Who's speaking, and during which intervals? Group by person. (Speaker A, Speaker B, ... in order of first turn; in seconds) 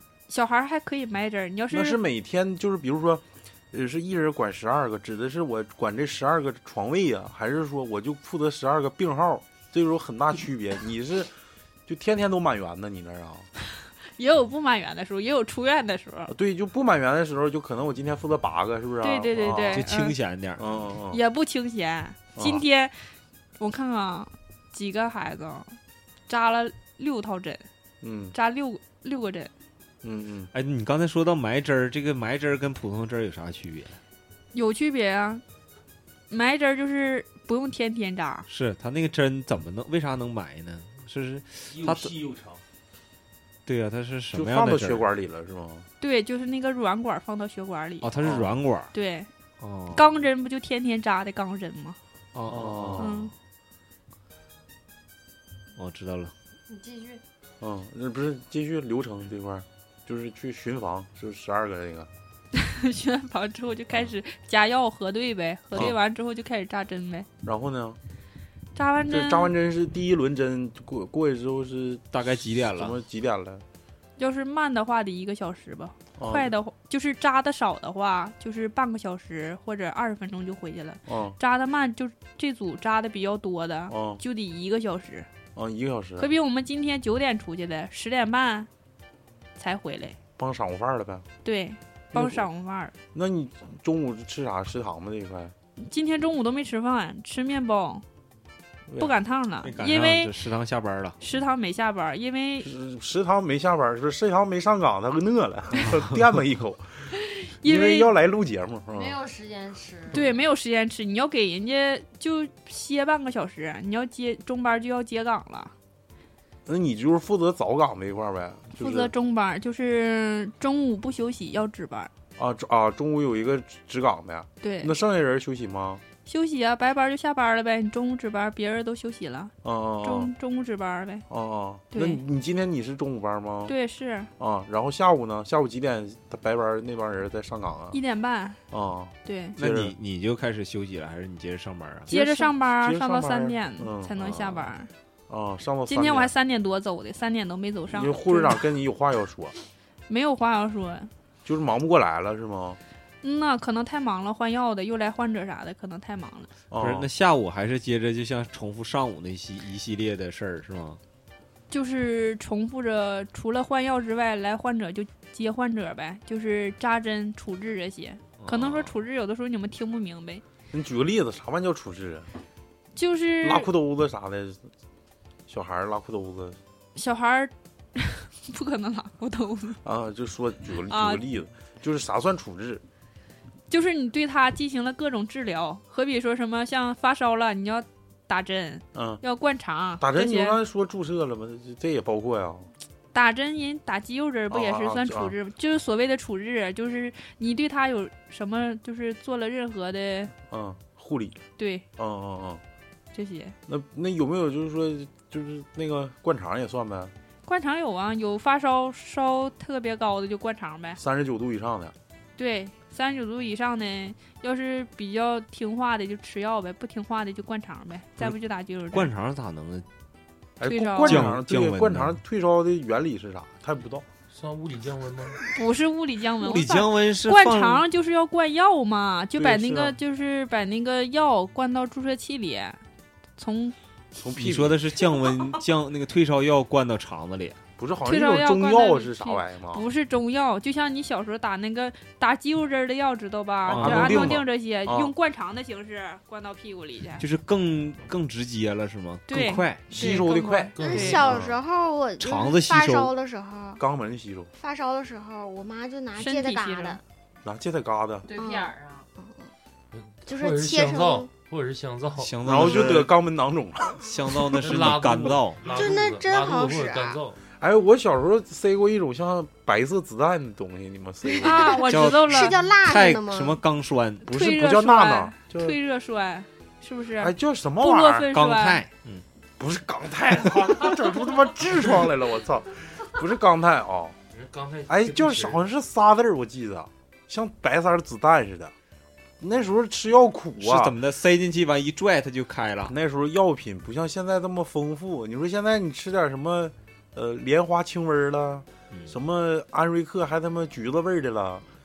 Speaker A: 0.3-2.0, 14.2-16.3, 19.0-20.2, 21.1-25.8, 26.3-27.7, 28.3-29.5, 34.5-35.4, 36.3-38.5, 46.0-48.1, 48.9-49.3, 49.9-52.0, 53.0-53.3, 62.5-67.3, 68.8-69.5, 74.2-85.3, 86.2-88.7, 89.6-90.2, 91.4-92.9, 95.8-98.0, 99.0-100.3, 101.2-102.7, 107.2-108.1, 110.1-115.7, 118.8-122.1, 124.6-125.0, 126.2-131.3, 131.9-132.2, 133.7-134.3, 137.9-138.6, 139.2-139.6, 142.1-144.9, 145.9-148.6, 150.1-151.1, 153.2-156.5, 161.7-170.4, 172.9-173.7, 176.9-179.8, 180.9-181.2, 183.7-190.6, 193.1-200.3, 201.6-201.9, 203.1-203.6, 207.5-211.0, 212.4-219.1, 220.6-221.3, 225.5-232.8, 233.4-233.8, 238.0-247.2, 249.3-251.2, 256.2-257.0, 271.4-272.5, 274.2-278.8
Speaker B: 1.7-11.3, 11.9-13.5, 16.3-19.8, 20.6-21.2, 22.4-22.6, 28.0-28.4, 30.0-30.5, 44.3-45.9, 48.2-48.5, 52.5-53.2, 57.6-62.1, 67.4-68.0, 69.1-73.6, 76.2-76.5, 81.1-81.4, 83.9-84.2, 85.5-86.3, 90.4-91.3, 92.1-92.5, 93.1-95.5, 102.6-106.9, 107.6-109.2, 116.7-119.1, 122.4-126.0, 129.6-130.3, 131.3-133.7, 134.4-138.0, 138.7-139.9, 142.1-144.2, 145.3-146.3, 147.9-149.5, 151.4-152.8, 156.7-157.1, 170.7-172.3, 173.4-174.6, 175.5-176.6, 179.8-182.8, 188.9-189.2, 190.0-192.7, 194.5-195.3, 200.4-201.4, 202.0-202.6, 203.7-207.1, 211.0-211.9, 220.6-224.1, 229.4-230.0, 234.2-235.0, 237.8-239.8, 243.7-245.1, 249.9-251.5, 253.8-254.5, 257.4-258.3, 262.4-265.3, 267.6-271.8, 274.3-275.8, 277.2-278.3, 279.6-284.2, 284.9-288.7, 289.4-291.0, 292.9-301.6
Speaker C: 19.7-20.8, 30.5-34.0, 38.5-42.1, 43.7-45.1, 48.0-48.9, 49.6-50.1, 52.3-53.2, 55.8-56.3, 72.1-73.0, 99.6-101.2, 105.8-106.2, 139.6-142.1, 156.8-161.0, 168.4-169.0, 218.9-219.9, 221.0-222.2, 226.4-227.8, 234.3-237.6, 243.7-244.4, 247.2-250.2, 252.2-253.1, 262.2-263.1, 264.0-265.7, 271.9-274.3, 278.3-279.2, 290.6-292.9
Speaker D: 41.7-42.6, 224.3-225.4, 250.8-251.4, 259.9-262.4, 264.6-267.4, 284.3-285.6
Speaker E: 56.7-57.2, 108.9-110.2, 258.3-259.1
Speaker F: 250.8-253.8, 254.6-257.0, 258.4-259.5, 260.3-261.3, 265.6-267.2, 271.4-273.6